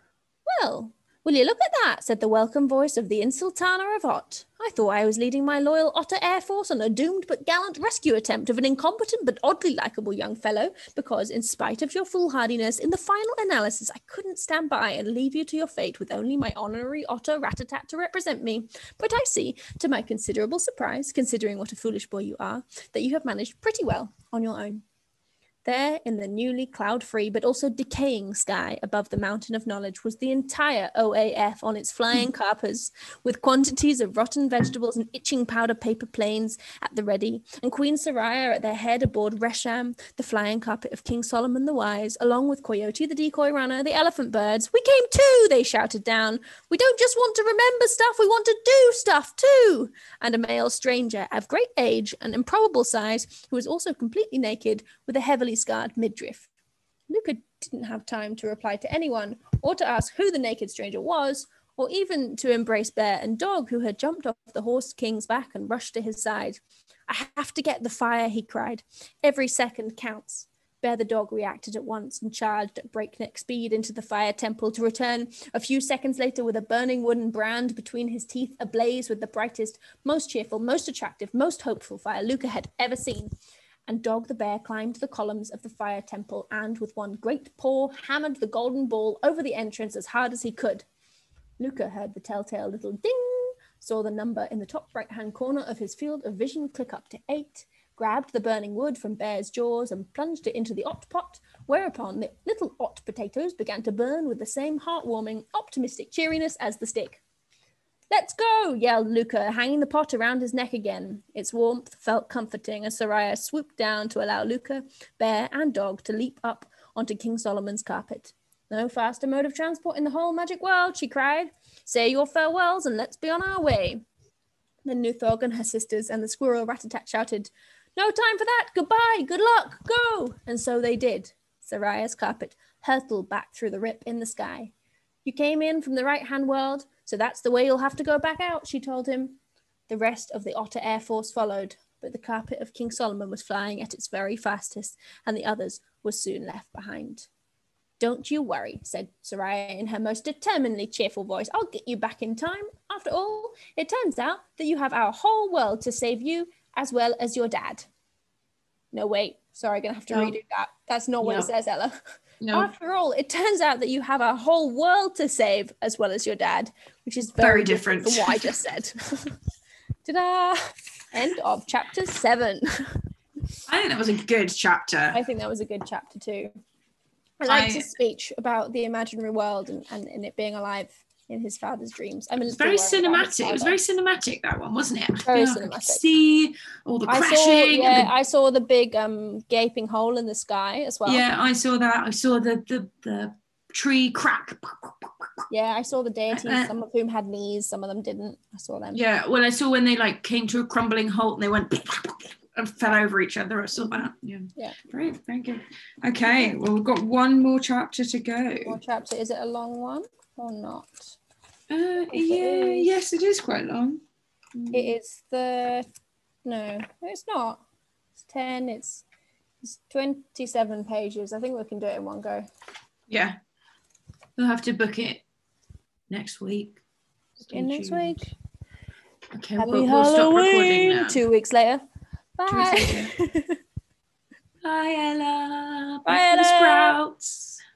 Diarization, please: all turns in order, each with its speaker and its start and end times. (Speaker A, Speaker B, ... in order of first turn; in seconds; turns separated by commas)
Speaker A: 0.5-24.8, Speaker A: 25.6-56.5, Speaker A: 57.1-83.3, Speaker A: 83.9-90.9, Speaker A: 91.6-107.2, Speaker A: 108.1-124.0, Speaker A: 124.8-134.7, Speaker A: 135.2-147.3, Speaker A: 148.0-157.9, Speaker A: 158.9-162.0, Speaker B: 160.1-160.3, Speaker B: 161.2-161.5, Speaker B: 162.4-162.7, Speaker A: 162.5-169.4, Speaker B: 167.4-168.6, Speaker A: 170.1-173.1, Speaker B: 173.7-175.2, Speaker A: 175.1-176.5, Speaker A: 177.4-183.8, Speaker B: 177.5-177.9, Speaker B: 182.5-188.1, Speaker A: 185.3-186.0, Speaker A: 187.1-191.2, Speaker B: 191.1-195.3, Speaker A: 195.5-199.0, Speaker B: 196.3-196.7, Speaker B: 198.9-208.8, Speaker A: 206.3-206.6, Speaker A: 208.7-211.2, Speaker B: 211.7-214.0, Speaker A: 212.1-212.9, Speaker B: 214.6-214.9, Speaker A: 214.7-215.9, Speaker A: 216.4-217.6, Speaker A: 218.2-219.1, Speaker A: 219.6-222.5, Speaker B: 223.1-223.4, Speaker B: 224.4-225.2, Speaker B: 226.1-226.8, Speaker B: 227.4-228.3, Speaker A: 227.5-228.3, Speaker B: 229.3-231.2, Speaker A: 229.6-231.8, Speaker A: 232.4-233.6, Speaker B: 232.5-233.1, Speaker B: 234.6-237.6, Speaker A: 236.1-237.0